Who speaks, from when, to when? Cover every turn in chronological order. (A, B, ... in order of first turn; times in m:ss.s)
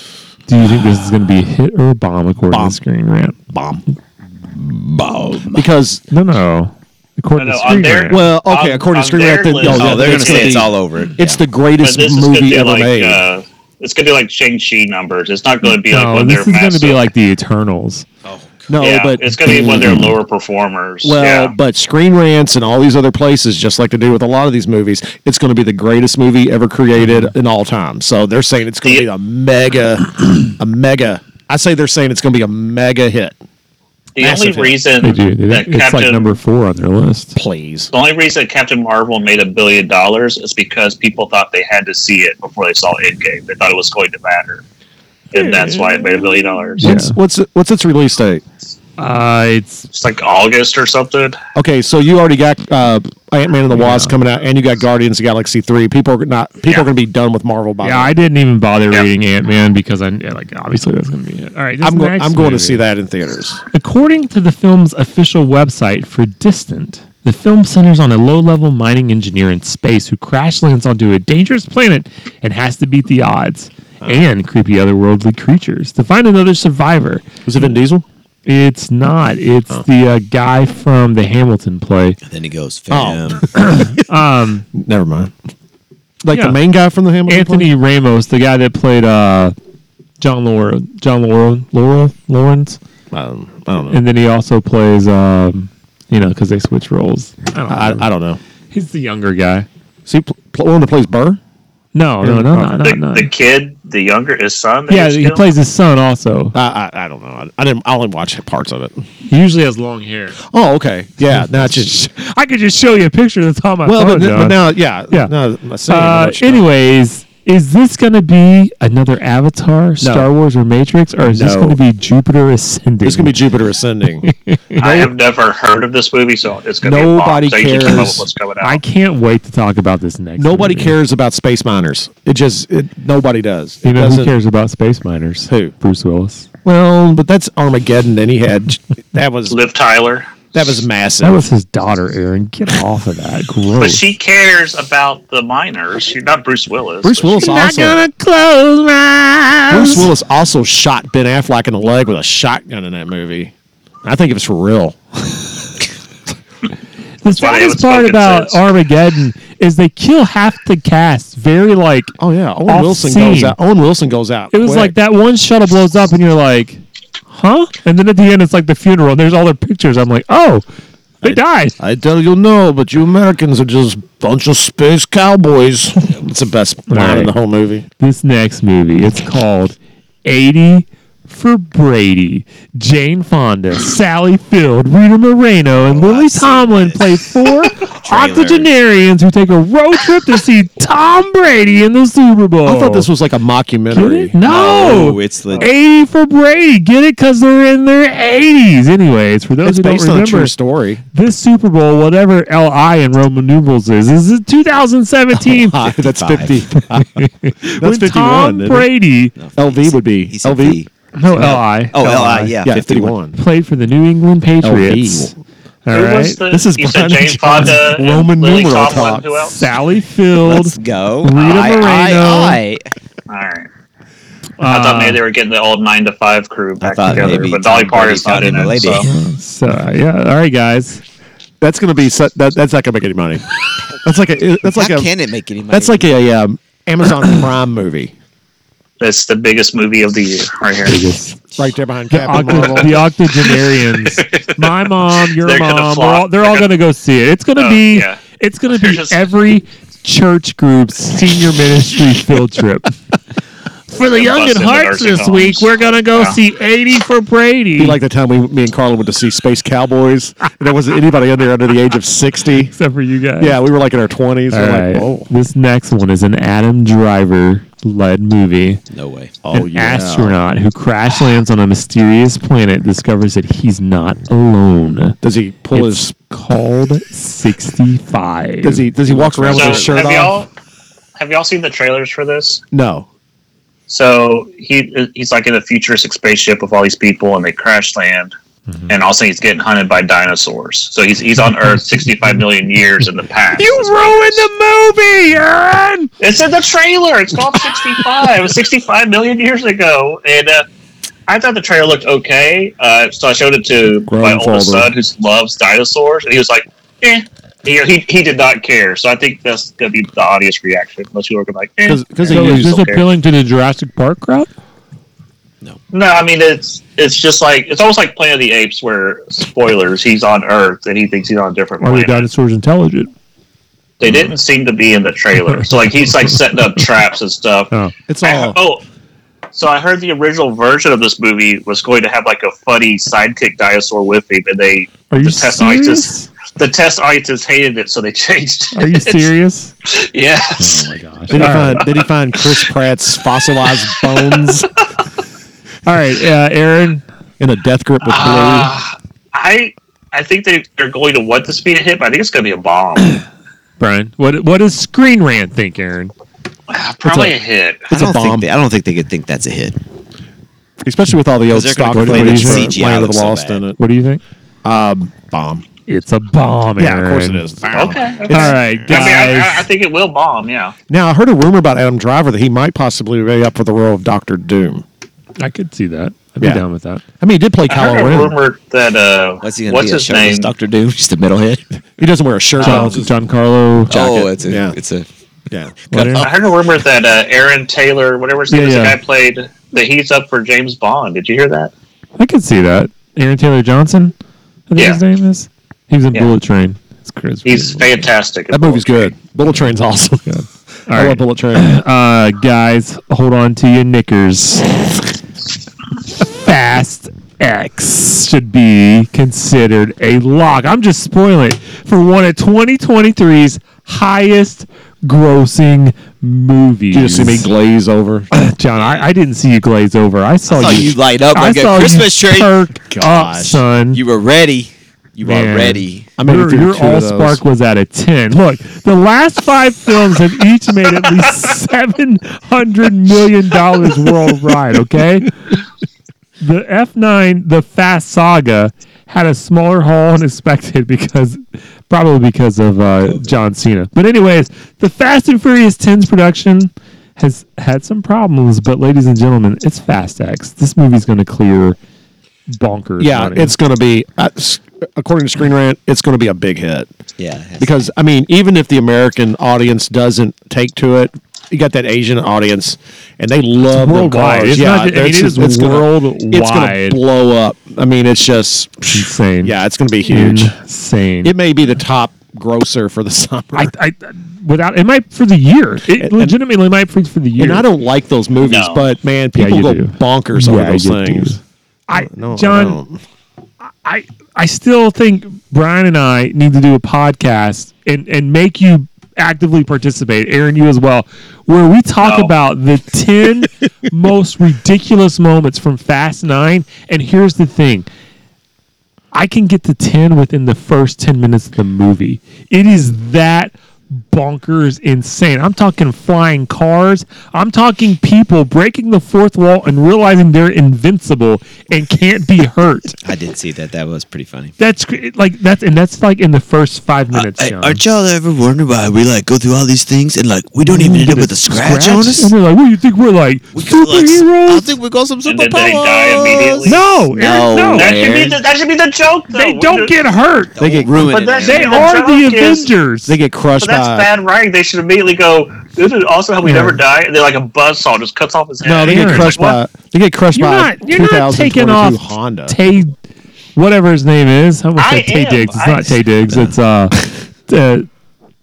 0:00.5-0:03.4 A
0:02.5-0:02.8 B
0:03.5-0:03.8 B
0:04.6-0:05.7 C
0:05.5-0:06.0 B
0:06.1-0:08.3 A
0:07.4-0:10.7 D
0:08.1-0:13.2 B
0:09.6-0:11.4 C
0:11.8-0:17.1 D
0:15.7-0:18.0 A
0:18.2-0:18.7 C
0:18.7-0:20.1 B
0:18.8-0:21.6 D
0:19.5-0:20.1 A
0:21.0-0:33.4 B
0:27.0-0:27.3 A
0:34.2-0:36.3 D
0:34.2-0:34.8 B
0:35.0-0:37.4 A
0:37.4-0:37.9 B
0:37.9-0:44.6 D
0:45.3-0:46.8 D
0:45.4-0:46.2 A
0:46.8-0:47.2 A
0:46.8-0:48.4 B
0:49.0-0:49.9 A
0:49.9-0:51.4 D
0:51.6-0:58.1 B
0:53.7-0:54.2 A
0:57.8-1:02.8 A
1:01.8-1:03.6 B
1:03.7-1:17.3 A
1:17.4-1:18.0 B
1:18.5-1:22.2 A
1:22.2-1:23.6 C
1:22.9-1:24.0 B
1:23.6-1:24.7 A
1:24.7-1:25.3 B
1:26.2-1:27.7 B
1:26.3-1:26.6 A
1:27.3-1:29.6 A
1:30.2-1:32.8 A
1:33.1-1:34.0 B
1:33.9-1:38.1 A
1:37.7-1:38.4 B
1:38.7-1:39.7 A
1:40.1-1:41.4 B
1:41.9-1:43.3 A
1:42.2-1:42.8 B
1:42.8-1:45.4 D
1:44.9-1:46.6 A
1:46.5-1:49.0 B
1:49.3-1:50.4 A
1:50.5-1:52.0 B
1:51.3-1:55.3 A
1:53.8-1:56.7 B
1:55.9-2:03.4 A
2:00.0-2:00.3 B
2:01.2-2:01.8 B
2:03.0-2:04.3 B
2:04.2-2:05.1 A
2:04.8-2:08.8 D
2:06.8-2:08.3 B
2:08.6-2:11.0 A
2:10.4-2:14.3 B
2:13.8-2:16.5 A
2:15.5-2:15.7 B
2:16.6-2:19.6 B
2:19.5-2:20.4 D
2:20.5-2:21.4 B
2:21.2-2:24.0 A
2:23.8-2:27.5 D
2:27.0-2:28.0 B
2:27.4-2:30.1 A
2:29.7-2:33.5 B
2:34.0-2:35.0 B
2:37.2-2:42.2 A
2:37.3-2:38.6 D
2:42.2-2:44.9 B
2:42.7-2:43.6 A
2:44.5-2:50.6 A
2:51.2-2:51.8 A
2:51.2-2:57.8 B
2:56.9-2:57.3 A
2:58.0-3:13.1 A
3:05.8-3:08.7 C
3:12.6-3:14.4 B
3:13.9-3:20.5 A
3:14.4-3:15.7 C
3:19.6-3:21.0 B
3:21.1-3:25.8 A
3:25.3-3:27.3 B
3:26.1-3:26.6 C
3:26.8-3:29.4 A
3:27.8-3:28.9 B
3:29.4-3:33.2 C
3:29.6-3:30.8 B
3:31.2-3:32.6 A
3:32.6-3:33.4 B
3:33.3-3:35.3 A
3:34.6-3:35.4 B
3:35.8-3:36.4 A
3:35.9-3:39.6 D
3:36.5-3:39.3 B
3:39.4-3:42.6 A
3:40.4-3:42.8 C
3:41.4-3:41.9 D
3:43.3-3:43.7 D
3:44.6-3:45.2 A
3:44.6-3:49.1 D
3:46.8-3:49.1 C
3:49.0-3:51.0 A
3:51.6-3:53.4 B
3:54.0-3:55.1 B
3:54.6-3:56.1 C
3:55.7-3:58.1 B
3:59.0-4:01.0 D
4:00.8-4:01.4 A
4:01.6-4:03.0 B
4:02.1-4:13.0 A
4:04.1-4:04.6 D
4:05.4-4:06.7 D
4:07.6-4:09.3 D
4:13.9-4:18.0 A
4:14.0-4:16.4 D
4:17.8-4:22.7 B
4:22.7-4:23.6 A
4:23.4-4:25.3 B
4:24.5-4:28.8 A
4:28.9-4:29.4 C
4:29.4-4:30.4 B
4:29.5-4:35.2 A
4:35.2-4:36.1 B
4:35.7-4:38.9 A
4:38.6-4:40.4 B
4:39.0-4:40.1 C
4:39.5-4:40.5 D
4:41.2-4:42.6 D
4:42.7-4:43.1 B
4:43.9-4:48.3 D
4:48.9-4:54.5 D
4:53.6-4:56.1 A
4:56.2-5:00.7 D
5:01.3-5:13.1 D
5:04.1-5:04.9 B
5:11.8-5:12.7 B
5:12.3-5:14.5 A
5:15.9-5:22.3 D
5:21.8-5:23.1 A
5:24.0-5:27.7 D
5:25.5-5:26.4 A
5:28.1-5:28.6 B
5:28.2-5:28.8 D
5:29.5-5:39.3 D
5:35.1-5:36.3 A
5:38.8-5:39.7 A
5:39.8-5:42.6 D
5:40.6-5:41.9 A
5:41.3-5:44.7 B
5:44.0-5:44.5 D
5:45.8-5:47.0 A
5:47.4-5:48.7 B
5:48.0-5:53.2 D
5:53.8-5:56.1 A
5:56.7-5:57.9 D
5:57.0-5:57.3 A
5:57.9-5:58.5 B
5:57.9-5:59.8 C
6:00.8-6:03.8 B
6:01.5-6:03.6 C
6:01.9-6:02.7 A
6:03.8-6:04.2 A
6:04.6-6:05.6 B
6:05.9-6:07.4 A
6:06.8-6:08.6 B
6:07.7-6:10.7 D
6:08.3-6:09.7 A
6:08.7-6:09.1 C
6:10.9-6:14.8 B
6:15.4-6:17.0 A
6:17.2-6:18.4 B
6:17.7-6:20.5 D
6:19.4-6:21.6 C
6:22.0-6:23.1 B
6:22.6-6:24.2 A
6:22.6-6:23.0 C
6:23.9-6:25.1 C
6:23.9-6:24.8 B
6:25.5-6:26.0 B
6:25.9-6:26.3 A
6:25.9-6:26.3 C
6:26.2-6:31.7 D
6:28.5-6:29.0 A
6:32.2-6:34.1 A
6:34.7-6:38.1 A
6:37.4-6:39.1 D
6:38.5-6:40.3 B
6:40.3-6:44.8 A
6:40.9-6:41.7 B
6:46.2-6:57.5 A
6:56.9-6:58.3 B
6:58.3-7:04.0 A
6:58.8-6:59.0 D
7:00.5-7:02.5 C
7:02.9-7:03.6 B
7:03.9-7:06.1 C
7:05.2-7:15.5 A
7:06.2-7:07.4 B
7:16.4-7:31.8 A
7:32.5-7:33.6 A
7:33.0-7:36.9 B
7:37.2-7:37.8 C
7:37.6-7:50.6 B
7:43.7-7:47.0 A
7:48.9-7:49.6 A
7:50.1-7:51.3 A
7:51.2-7:53.7 B
7:53.5-7:57.7 A
7:56.0-7:56.4 B
7:57.4-8:01.4 B
7:58.4-7:58.9 D
7:59.4-8:02.8 A
8:01.9-8:03.0 B
8:03.8-8:17.9 A
8:12.0-8:12.3 D
8:19.1-8:33.0 A
8:33.0-8:34.6 C
8:34.6-8:37.8 A
8:37.1-8:42.3 C
8:40.6-8:44.8 A
8:43.5-8:48.4 C
8:45.2-8:46.8 D
8:46.6-8:48.0 A
8:47.7-8:50.0 D
8:49.3-8:50.6 A
8:50.6-8:51.9 C
8:50.6-8:51.2 B
8:51.0-8:52.7 D
8:51.4-8:53.2 A
8:53.1-8:54.1 B
8:53.6-8:59.6 D
8:56.4-8:56.8 A
8:58.6-9:02.6 B
8:58.8-8:59.4 A
9:00.3-9:02.9 A
9:03.6-9:07.9 A
9:04.8-9:06.0 D